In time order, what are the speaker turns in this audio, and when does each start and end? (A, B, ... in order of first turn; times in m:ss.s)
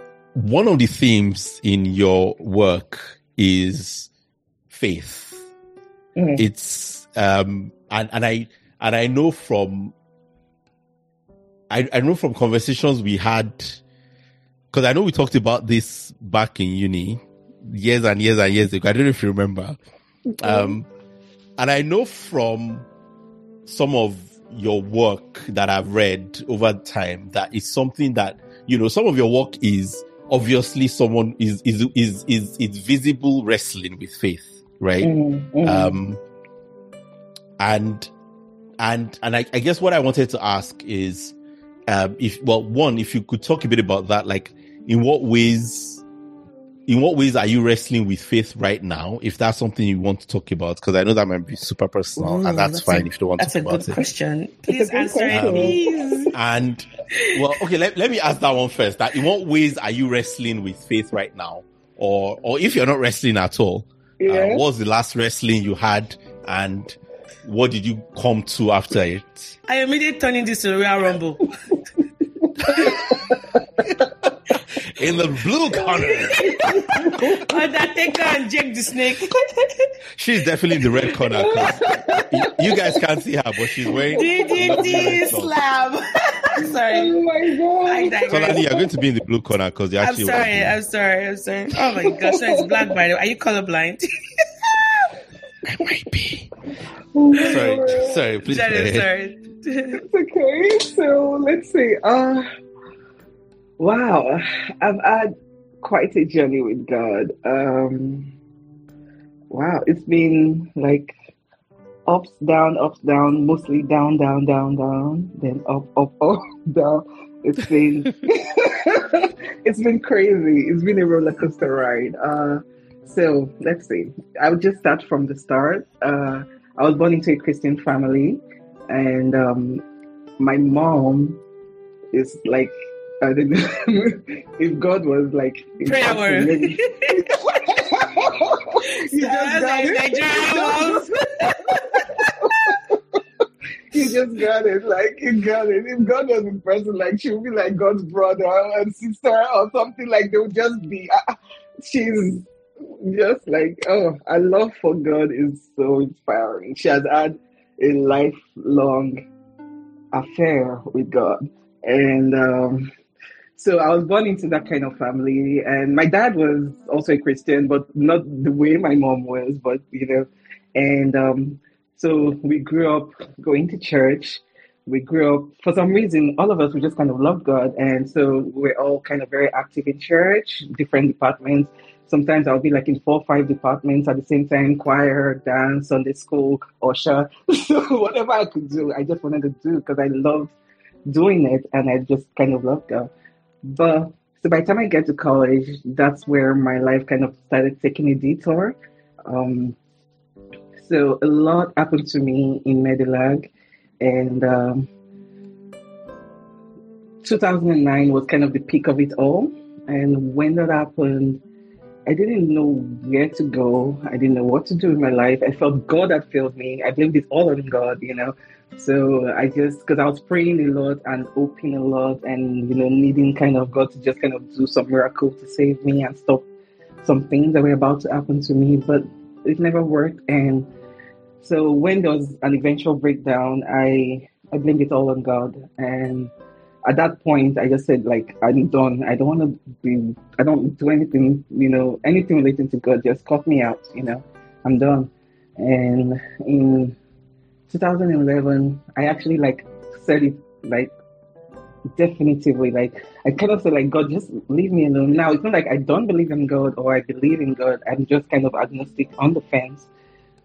0:00.4-0:04.1 A
0:04.7-0:05.4 A
0:06.2-0:06.5 B
0:06.4-0:09.9 A
0:11.7-0:13.8 A
0:14.7-0:19.8 A
0:20.3-0:20.8 B
0:20.4-0:20.9 A
0:21.6-0:22.9 A
0:23.7-0:35.1 A
0:35.0-0:36.0 B
0:35.6-0:36.2 A
0:37.6-0:38.1 A
0:38.8-0:41.4 A
0:41.9-0:46.0 A
0:46.9-0:54.0 A
0:52.2-0:56.3 C
0:54.7-0:56.2 B
0:55.3-0:55.8 A
0:56.3-1:09.6 A
1:04.2-1:04.6 B
1:09.7-1:11.5 C
1:12.4-1:14.1 B
1:12.6-1:13.1 A
1:12.7-1:13.2 C
1:14.9-1:16.8 A
1:15.8-1:17.6 B
1:15.9-1:19.8 C
1:20.2-1:25.6 A
1:21.3-1:23.0 B
1:23.9-1:25.3 B
1:24.2-1:27.2 C
1:26.7-1:28.9 B
1:27.9-1:28.6 C
1:28.3-1:30.8 A
1:30.0-1:34.0 C
1:32.1-1:32.7 B
1:35.7-1:36.5 A
1:37.2-1:38.2 B
1:37.5-1:39.1 A
1:38.5-1:40.0 C
1:40.0-1:42.5 B
1:43.8-1:45.3 B
1:45.8-1:48.3 B
1:49.5-1:51.1 B
1:52.1-2:09.8 B
2:10.4-2:11.4 B
2:12.1-2:23.2 B
2:15.8-2:17.2 C
2:18.8-2:22.8 C
2:23.9-2:39.2 B
2:40.1-2:42.9 B
2:43.6-3:10.5 B
3:11.1-3:13.1 B
3:13.7-3:18.8 B
3:19.3-3:19.8 B
3:20.8-3:24.9 B
3:27.2-3:31.4 B
3:32.1-3:46.5 B
3:47.0-3:50.7 B
3:51.4-3:56.3 B
3:56.9-4:07.0 B
4:07.7-4:10.9 B
4:11.9-4:19.9 B